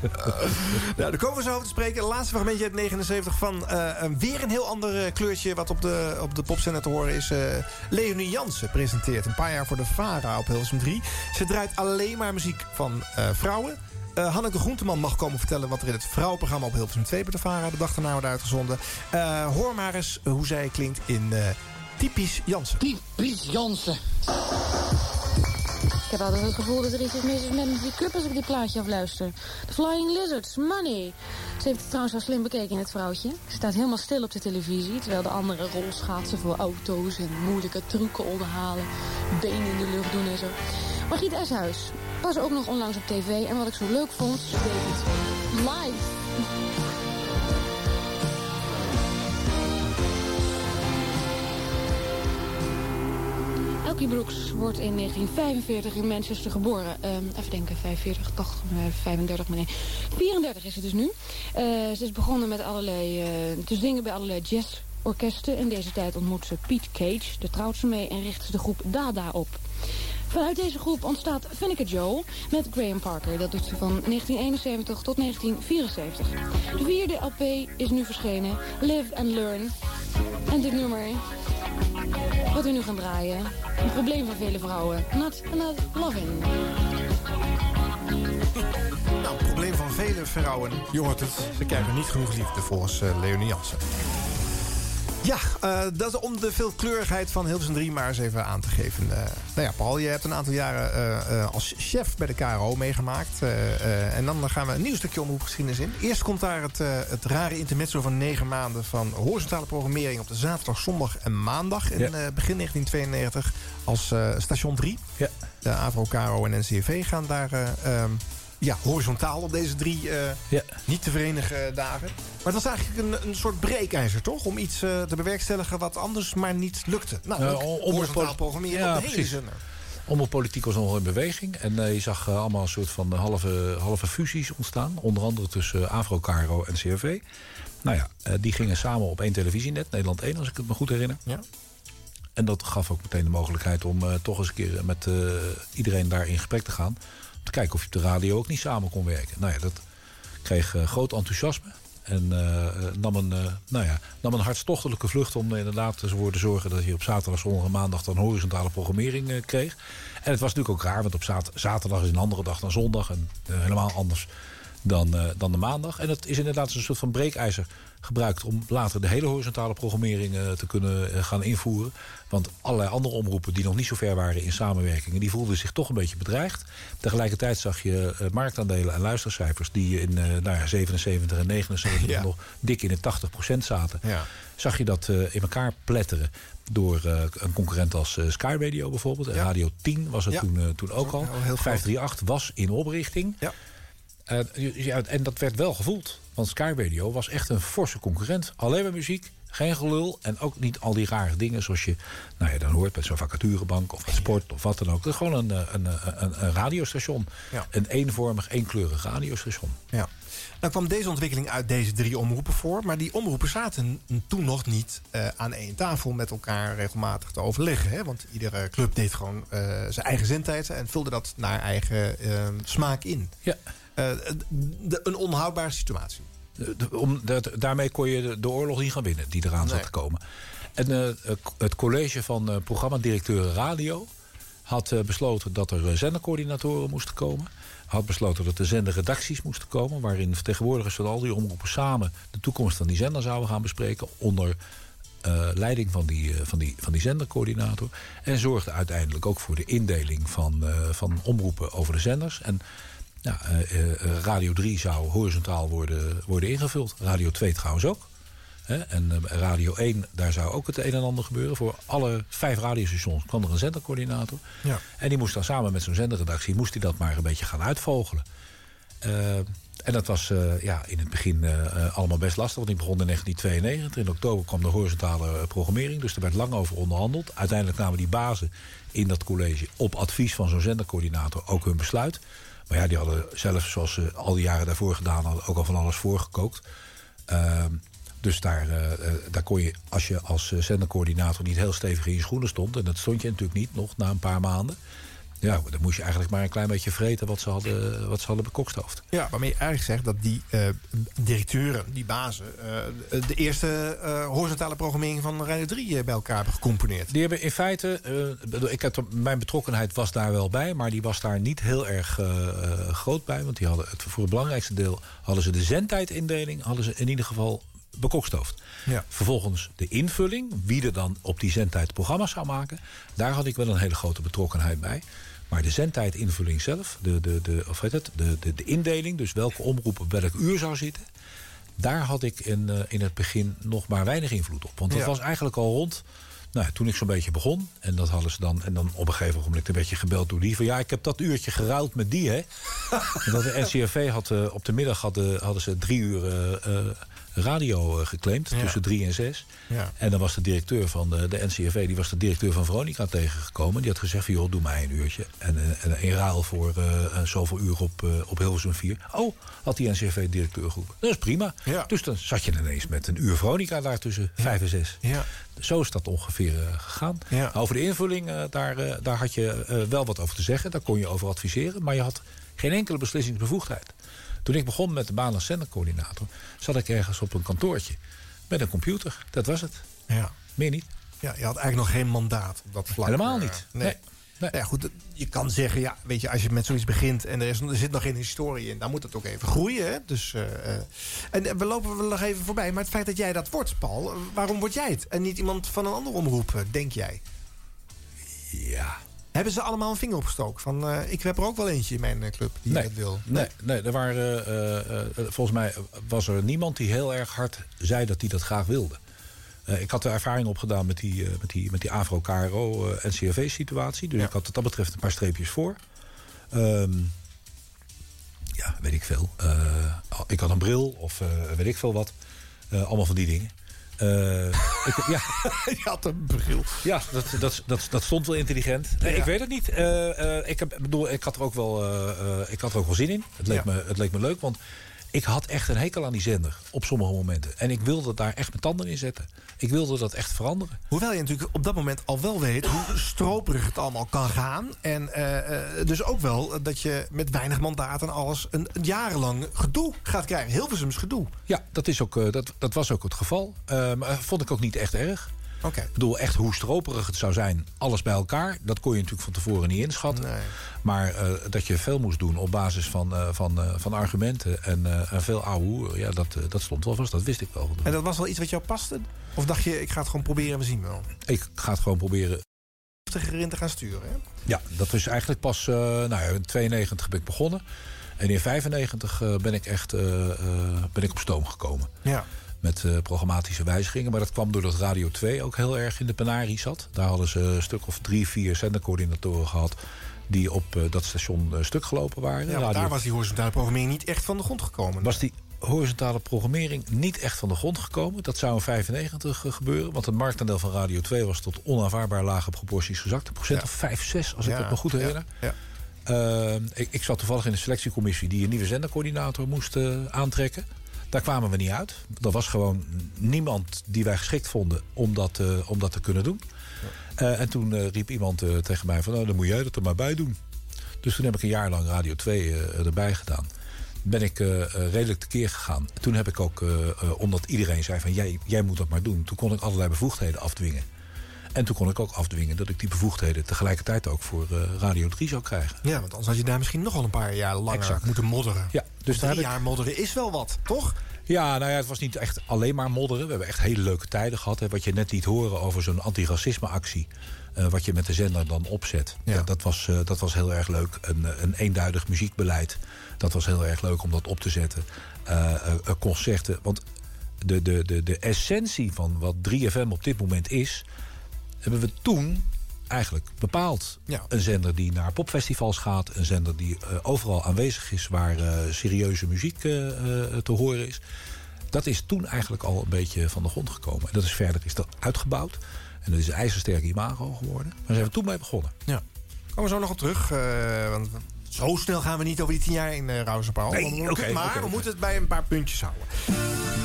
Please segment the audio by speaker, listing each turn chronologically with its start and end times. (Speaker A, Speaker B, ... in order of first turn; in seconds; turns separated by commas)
Speaker A: 0.4-22.9, Speaker B: 26.1-40.6, Speaker B: 41.1-46.1, Speaker B: 53.8-69.6, Speaker B: 70.3-79.7, Speaker B: 80.5-81.2, Speaker B: 82.5-86.5, Speaker A: 89.2-93.8, Speaker A: 95.2-115.0, Speaker A: 115.6-129.6, Speaker C: 120.5-120.8, Speaker C: 127.4-129.4, Speaker C: 130.1-137.2, Speaker C: 137.8-141.2, Speaker C: 142.4-149.8, Speaker C: 150.4-164.3, Speaker C: 164.8-184.0, Speaker A: 181.9-182.3, Speaker C: 184.6-193.4, Speaker A: 191.0-191.8, Speaker C: 194.3-209.8, Speaker A: 210.6-223.3, Speaker A: 224.0-226.3, Speaker C: 226.6-230.2, Speaker A: 229.6-229.9, Speaker C: 230.8-234.1, Speaker C: 234.7-244.6, Speaker C: 245.2-252.6, Speaker C: 253.2-258.1, Speaker C: 258.7-264.4, Speaker C: 265.0-268.2, Speaker C: 269.0-286.6, Speaker C: 287.3-294.8, Speaker C: 295.4-299.0, Speaker A: 299.1-307.1, Speaker C: 307.1-318.6, Speaker C: 319.1-331.1, Speaker C: 331.8-342.5, Speaker C: 343.2-365.0, Speaker A: 348.5-348.8, Speaker A: 364.4-365.3, Speaker C: 365.6-373.9, Speaker C: 374.4-379.9, Speaker A: 380.1-380.3, Speaker C: 380.6-380.9, Speaker A: 381.2-384.0, Speaker C: 383.1-384.5, Speaker A: 384.5-397.2, Speaker C: 398.5-399.0, Speaker A: 399.3-403.5, Speaker C: 402.7-409.0, Speaker C: 409.7-415.8, Speaker C: 416.5-417.1, Speaker C: 418.6-422.1, Speaker C: 422.7-425.4, Speaker A: 425.4-426.8, Speaker C: 426.8-434.6, Speaker A: 429.0-429.3, Speaker C: 435.1-440.8, Speaker A: 440.9-451.3, Speaker C: 451.5-455.3, Speaker A: 455.6-455.9, Speaker C: 455.9-460.3, Speaker A: 460.1-460.5, Speaker C: 460.8-468.0, Speaker A: 467.9-471.1, Speaker C: 471.2-472.4, Speaker A: 473.1-474.2, Speaker C: 474.5-477.6, Speaker C: 478.2-481.9, Speaker C: 482.6-492.9, Speaker A: 492.5-495.2, Speaker C: 495.0-505.3, Speaker A: 504.4-505.6, Speaker C: 506.1-516.4, Speaker C: 517.2-520.4, Speaker C: 521.0-523.5, Speaker C: 524.0-530.9, Speaker C: 531.5-535.8, Speaker A: 535.8-541.0, Speaker C: 537.7-538.1, Speaker C: 538.7-539.6, Speaker C: 541.3-556.8, Speaker C: 557.4-560.9, Speaker C: 561.6-571.0, Speaker C: 571.7-578.7, Speaker A: 579.5-586.1, Speaker C: 583.7-584.9